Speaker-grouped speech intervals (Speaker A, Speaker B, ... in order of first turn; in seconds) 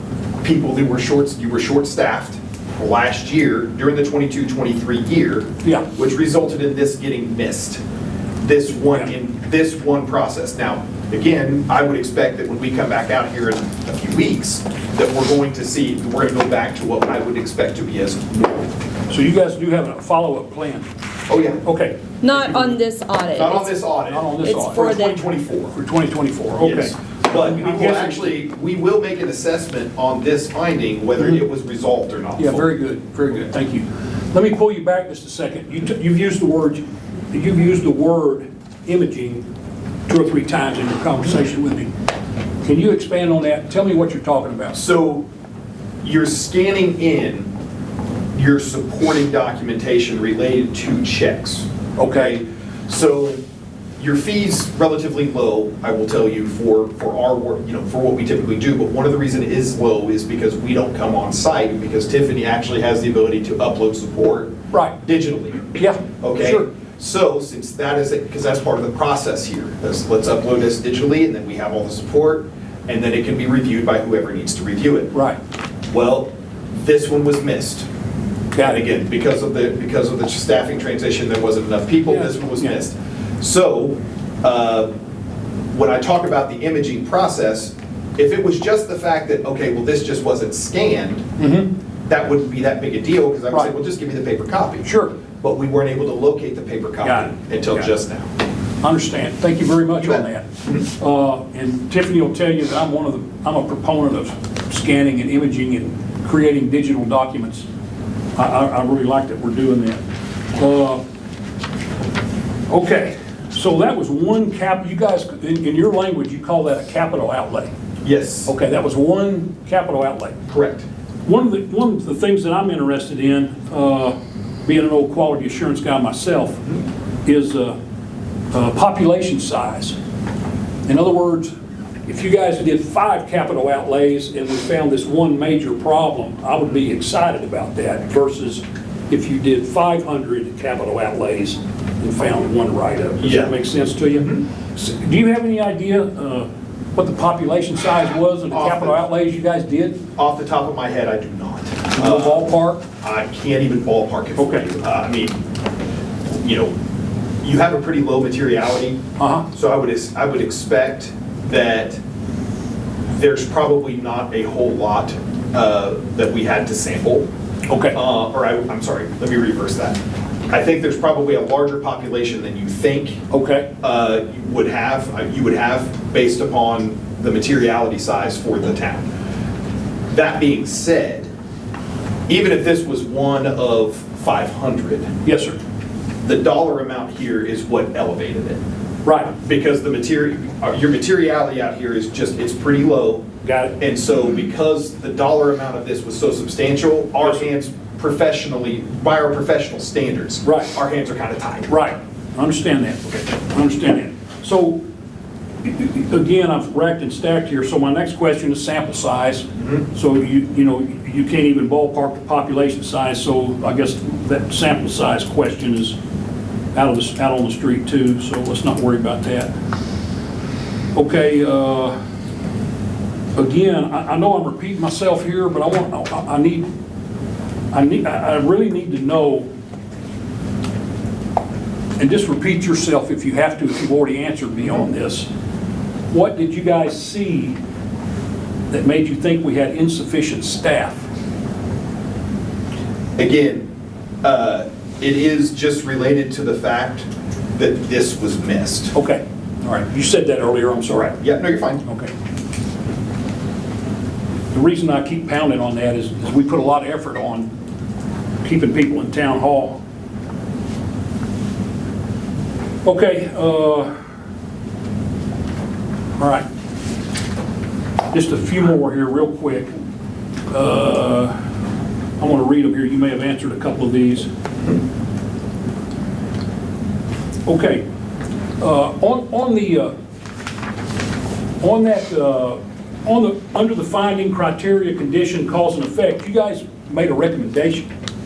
Speaker A: 0.4-7.8, 8.4-18.6, 21.3-21.6, 23.3-25.8, 26.5-32.7, 44.7-45.2, 46.0-47.5, 48.4-53.4, 54.0-75.1, 75.9-77.9, 78.6-84.9, 85.7-91.3, 92.1-94.9, 95.4-98.3, 100.0-100.8, 118.0-118.5, 120.5-120.9, 143.2-143.5, 144.1-144.4, 148.5-149.0, 150.2-152.5, 153.0-155.4, 156.4-156.7, 157.4-159.0, 159.5-162.0, 163.1-167.3, 167.9-173.2, 173.8-179.1, 180.1-181.3, 182.3-185.1, 186.2-188.6, 189.4-193.2, 193.8-201.7, 243.2-243.7, 244.2-248.9, 250.9-251.8
Speaker B: 5.6-5.9, 19.1-20.9, 21.6-22.8, 24.1-25.1, 25.7-28.4, 32.4-39.4, 40.1-41.9, 42.6-44.8, 52.0-52.4, 65.7-66.7, 75.1-75.4, 78.5-78.8, 82.1-82.8, 91.4-91.7, 94.8-95.1, 97.0-97.9, 98.8-107.7, 108.4-110.0, 110.5-111.0, 112.7-117.7, 118.5-120.4, 121.2-126.7, 127.2-127.8, 128.5-129.9, 130.9-131.5, 132.1-150.0, 151.9-152.8, 154.4-154.7, 159.2-159.5, 167.7-168.0, 173.3-173.7, 185.2-185.6, 189.1-189.3, 193.4-193.8, 200.4-200.8, 201.7-204.8, 205.6-216.0, 216.7-219.5, 220.9-221.9, 223.3-226.7, 227.7-229.5, 232.0-235.3, 236.1-237.6, 238.7-241.0, 248.9-251.2, 251.8-252.1, 254.5-257.5, 258.4-259.8, 262.8-263.9, 266.2-266.4, 268.1-269.7, 270.5-271.4, 272.2-274.3, 277.5-277.8, 278.6-279.9, 281.6-287.9
Speaker C: 22.2-23.7, 24.4-25.2